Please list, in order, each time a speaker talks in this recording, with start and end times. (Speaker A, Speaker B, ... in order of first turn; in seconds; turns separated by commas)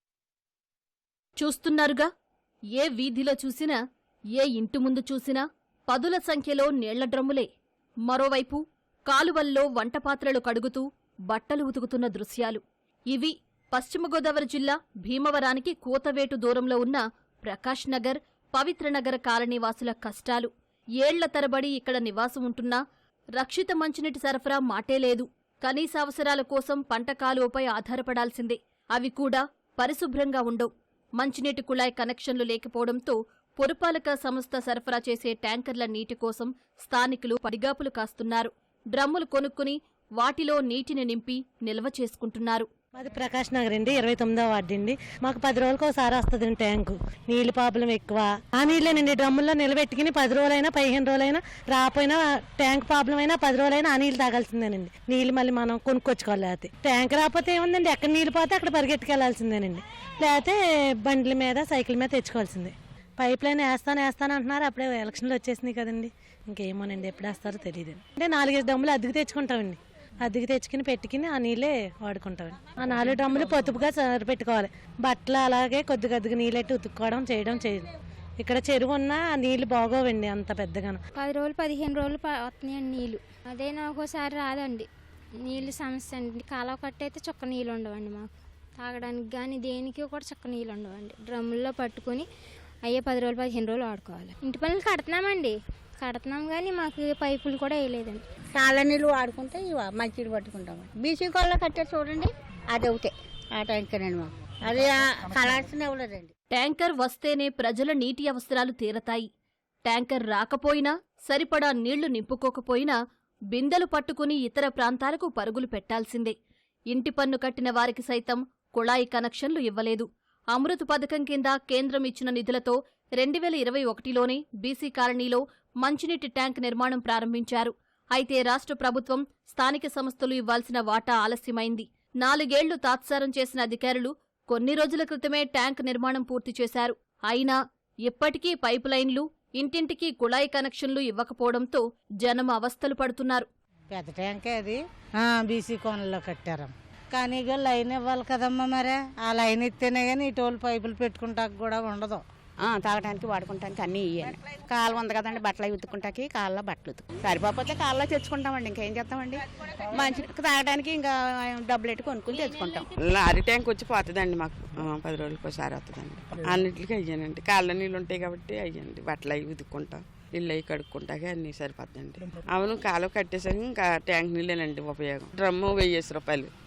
Speaker A: 1.4-2.1, Speaker A: 2.8-3.8, Speaker A: 4.4-7.5, Speaker A: 8.1-20.5, Speaker A: 21.0-22.8, Speaker A: 23.4-42.7, Speaker B: 43.0-77.9, Speaker B: 78.4-81.0, Speaker C: 81.2-84.9, Speaker C: 85.4-92.3, Speaker C: 92.9-98.2, Speaker D: 98.6-106.3, Speaker A: 106.5-109.3, Speaker A: 109.9-113.0, Speaker A: 113.5-116.3, Speaker A: 116.9-137.6, Speaker A: 138.1-143.5, Speaker E: 143.9-152.2, Speaker F: 152.6-162.9, Speaker G: 163.0-176.5